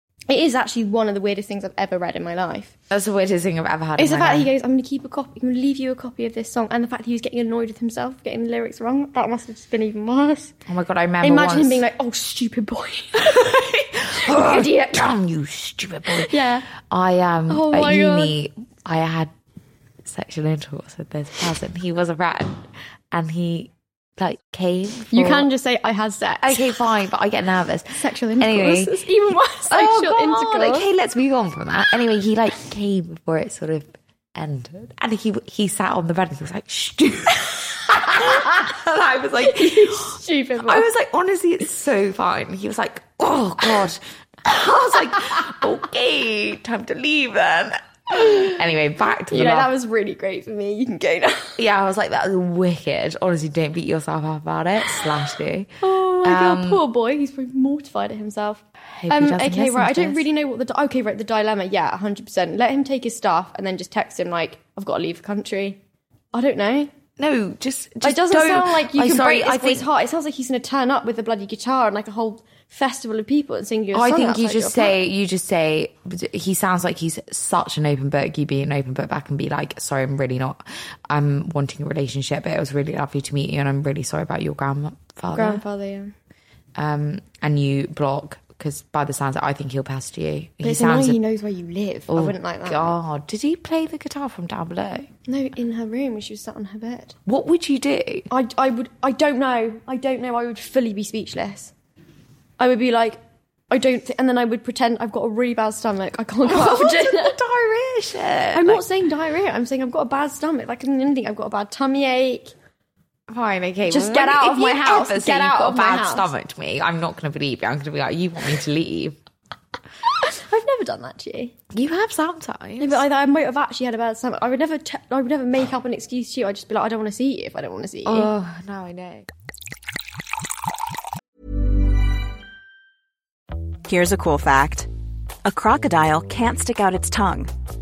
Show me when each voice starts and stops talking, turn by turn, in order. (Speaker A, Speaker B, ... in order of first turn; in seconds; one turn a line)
Speaker A: 0.3-2.7
Speaker B: 2.9-4.5
Speaker A: 4.0-10.6
Speaker B: 10.7-11.8
Speaker A: 11.2-13.6
Speaker B: 13.2-19.3
Speaker A: 14.2-15.1
Speaker A: 16.1-16.7
Speaker A: 17.5-18.3
Speaker B: 20.1-25.5
Speaker A: 25.1-26.8
Speaker B: 26.4-29.0
Speaker A: 28.0-30.9
Speaker B: 29.7-49.7
Speaker A: 39.4-40.9
Speaker A: 49.3-51.6
Speaker B: 51.6-56.8
Speaker A: 55.8-65.8
Speaker B: 58.9-60.2
Speaker A: 66.3-66.9
Speaker B: 67.2-69.9
Speaker A: 68.0-75.0
Speaker B: 73.9-85.6
Speaker A: 85.3-86.1
Speaker B: 86.8-91.2
Speaker A: 90.6-93.0
Speaker B: 92.1-95.1
Speaker A: 95.3-97.2
Speaker B: 97.3-98.3
Speaker A: 98.3-101.7
Speaker A: 102.6-107.4
Speaker B: 106.4-108.8
Speaker A: 108.5-112.5
Speaker B: 113.3-119.2
Speaker A: 113.9-116.3
Speaker A: 120.2-121.5
Speaker B: 121.7-123.0
Speaker A: 122.8-128.3
Speaker B: 128.1-129.3
Speaker C: 133.8-134.9
Speaker C: 135.4-137.5